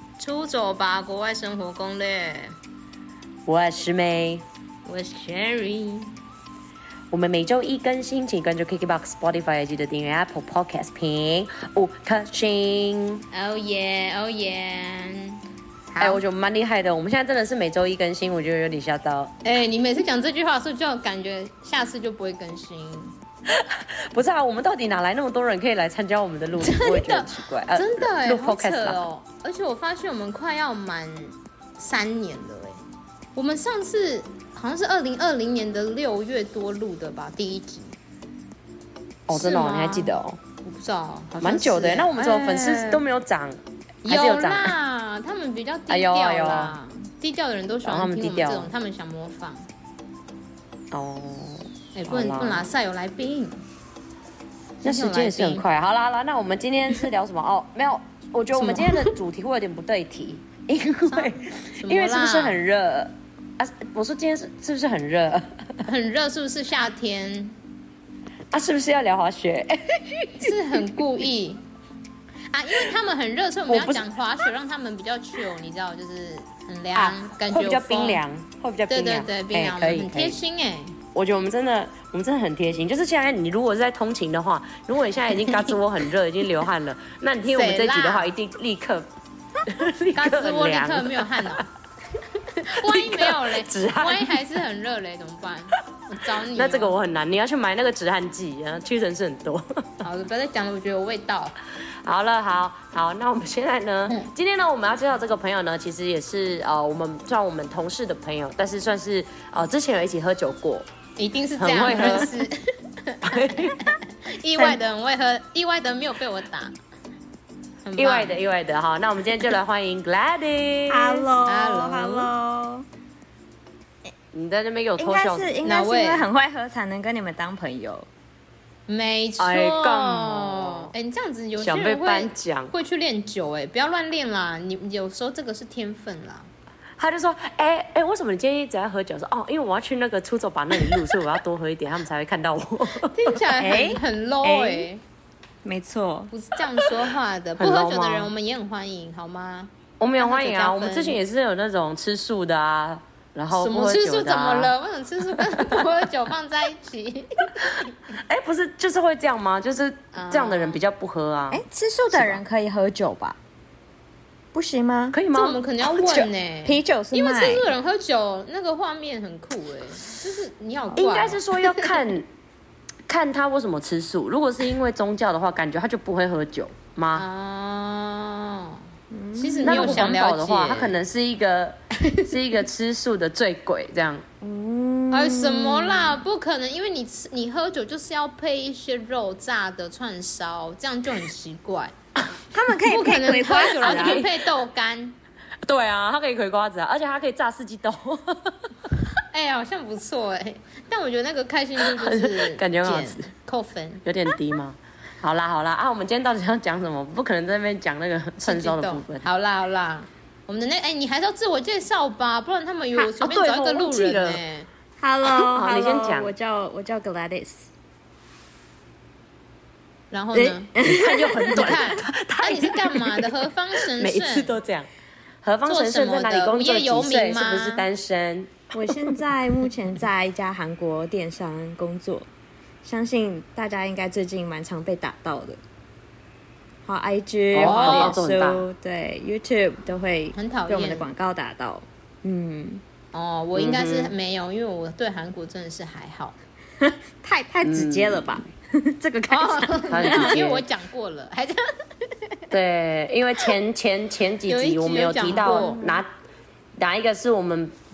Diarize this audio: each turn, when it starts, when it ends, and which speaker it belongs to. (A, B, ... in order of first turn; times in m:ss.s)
0:00.2-0:02.6 A
0:03.5-0:04.4 B
0:04.9-0:06.1 A
0:07.1-0:13.2 B
0:13.3-0:16.2 A
0:16.0-0:19.3 B
0:19.4-0:23.2 A
0:23.5-0:29.0 B
0:26.6-0:32.8 A
0:33.4-0:38.0 A
0:39.3-0:40.4 B
0:39.3-0:43.0 A
0:41.4-0:44.7 B
0:44.0-0:49.7 A
0:45.9-0:46.8 B
0:47.8-0:48.7 B
0:50.9-0:52.7 B
0:51.9-0:53.6 A
0:54.8-1:05.8 B
0:54.8-0:55.6 A
0:58.6-0:59.2 A
1:01.1-1:02.6 A
1:05.8-1:07.6 A
1:08.5-1:10.5 B
1:10.4-1:11.6 A
1:12.5-1:18.2 A
1:13.7-1:14.1 B
1:16.9-1:20.4 B
1:18.9-1:21.0 A
1:21.1-1:29.1 B
1:25.5-1:25.8 A
1:27.5-1:28.3 A
1:29.6-1:31.6 B
1:30.2-1:31.7 A
1:32.5-1:37.0 A
1:32.7-1:34.4 B
1:36.5-1:40.0 B
1:40.0-1:41.5 A
1:42.0-1:50.9 B
1:51.2-1:56.8 A
1:51.6-1:52.4 B
1:53.2-1:53.9 B
1:57.8-1:58.4 A
1:58.0-2:01.3 B
2:00.9-2:02.9 C
2:01.5-2:02.3 A
2:04.3-2:05.6 B
2:05.0-2:08.1 C
2:05.6-2:06.3 A
2:08.9-2:16.5 A
2:09.4-2:10.9 B
2:11.6-2:12.7 B
2:17.0-2:23.4 B
2:23.0-2:25.0 A
2:23.6-2:24.9 C
2:25.6-2:26.3 C
2:26.3-2:31.2 A
2:27.6-2:28.3 B
2:30.0-2:34.7 B
2:33.5-2:38.1 A
2:35.4-2:35.8 B
2:38.2-2:42.4 B
2:40.1-2:40.8 A
2:41.5-2:43.4 C
2:44.5-2:45.2 C
2:45.1-2:46.2 B
2:45.3-2:51.9 A
2:46.0-2:47.7 C
2:51.0-2:52.3 B
2:53.1-2:57.2 B
2:57.1-2:58.8 A
2:59.1-3:00.2 C
2:59.4-3:00.9 A
2:59.6-3:04.2 B
3:02.0-3:02.3 A
3:04.4-3:06.2 C
3:05.1-3:11.9 A
3:12.5-3:14.2 C
3:12.9-3:15.2 A
3:13.6-3:14.3 B
3:15.7-3:18.6 B
3:19.2-3:24.0 A
3:21.8-3:23.3 B
3:24.0-3:29.3 B
3:28.4-3:34.7 A
3:33.0-3:34.4 B
3:35.0-3:37.7 C
3:35.2-3:36.3 B
3:40.1-3:40.7 A
3:40.3-3:41.9 C
3:40.8-3:44.9 B
3:41.4-3:44.5 A
3:45.4-3:48.9 B
3:45.7-3:47.9 A
3:48.7-3:52.3 C
3:52.8-3:55.6 C
3:56.8-4:02.8 C
3:57.5-3:58.7 B
3:57.6-3:58.2 A
4:00.4-4:01.1 A
4:03.1-4:06.4 A
4:03.6-4:04.1 B
4:06.8-4:10.4 C
4:07.6-4:08.4 B
4:09.3-4:12.4 A
4:09.9-4:10.6 B
4:12.5-4:16.1 B
4:14.5-4:15.8 A
4:15.4-4:16.0 C
4:16.8-4:17.8 B